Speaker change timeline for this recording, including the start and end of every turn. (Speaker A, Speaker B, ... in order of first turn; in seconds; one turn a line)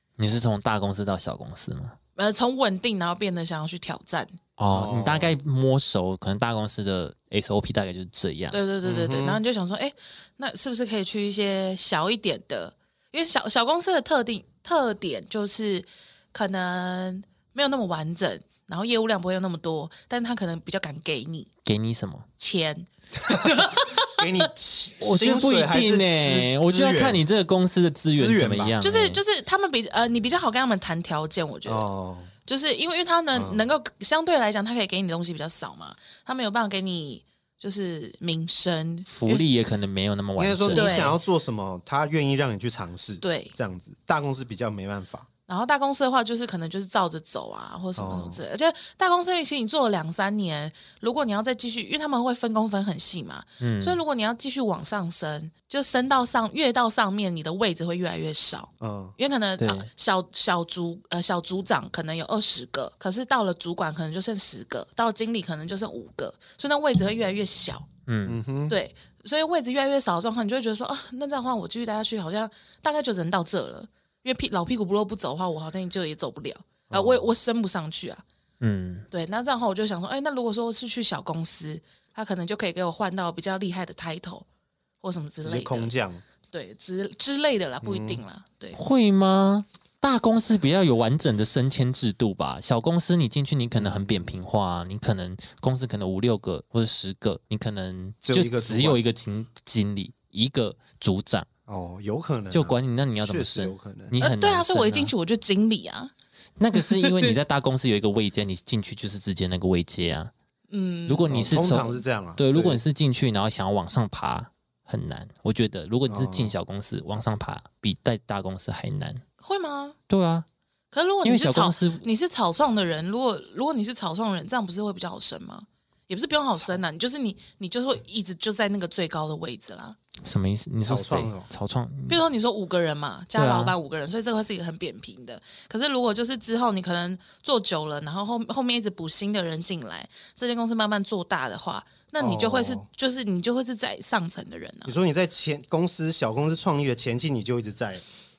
Speaker A: 0.2-2.0
Speaker B: 2.2-4.4
Speaker A: 4.6-8.6
Speaker C: 4.7-5.3
Speaker B: 8.5-21.5
Speaker C: 8.8-9.4
Speaker A: 21.7-22.3
Speaker B: 22.4-24.5
Speaker C: 23.3-27.2
Speaker A: 25.0-29.2
Speaker C: 28.1-28.8
Speaker B: 28.8-31.9
Speaker C: 31.7-32.3
Speaker B: 32.5-39.5
Speaker C: 33.3-33.6
Speaker A: 39.1-41.0
Speaker C: 40.4-45.3
Speaker B: 40.7-41.2
Speaker B: 43.2-43.5
Speaker B: 45.5-67.9
Speaker C: 48.0-48.4
Speaker A: 53.6-54.0
Speaker C: 58.8-59.2
Speaker A: 59.6-59.9
Speaker A: 68.1-68.4
Speaker C: 68.3-68.8
Speaker B: 68.7-78.2
Speaker C: 76.9-77.3
Speaker A: 78.6-79.1
Speaker B: 79.1-84.5
Speaker B: 85.0-85.9
Speaker C: 85.4-86.2
Speaker B: 86.5-88.8
Speaker C: 87.8-88.2
Speaker A: 88.8-101.5
Speaker C: 93.7-94.4
Speaker C: 98.2-99.0
Speaker C: 101.7-104.2
Speaker A: 102.5-105.1
Speaker B: 104.2-106.1
Speaker A: 106.6-110.3
Speaker B: 106.8-107.3
Speaker B: 110.7-111.5
Speaker A: 111.1-119.2
Speaker C: 111.3-112.8
Speaker C: 116.1-116.6
Speaker B: 119.4-120.0
Speaker A: 120.1-120.5
Speaker B: 120.9-130.0
Speaker A: 121.2-122.1
Speaker A: 130.2-132.2
Speaker C: 130.8-131.5
Speaker B: 132.1-144.9
Speaker A: 133.4-133.8
Speaker C: 142.2-142.9
Speaker C: 144.9-148.0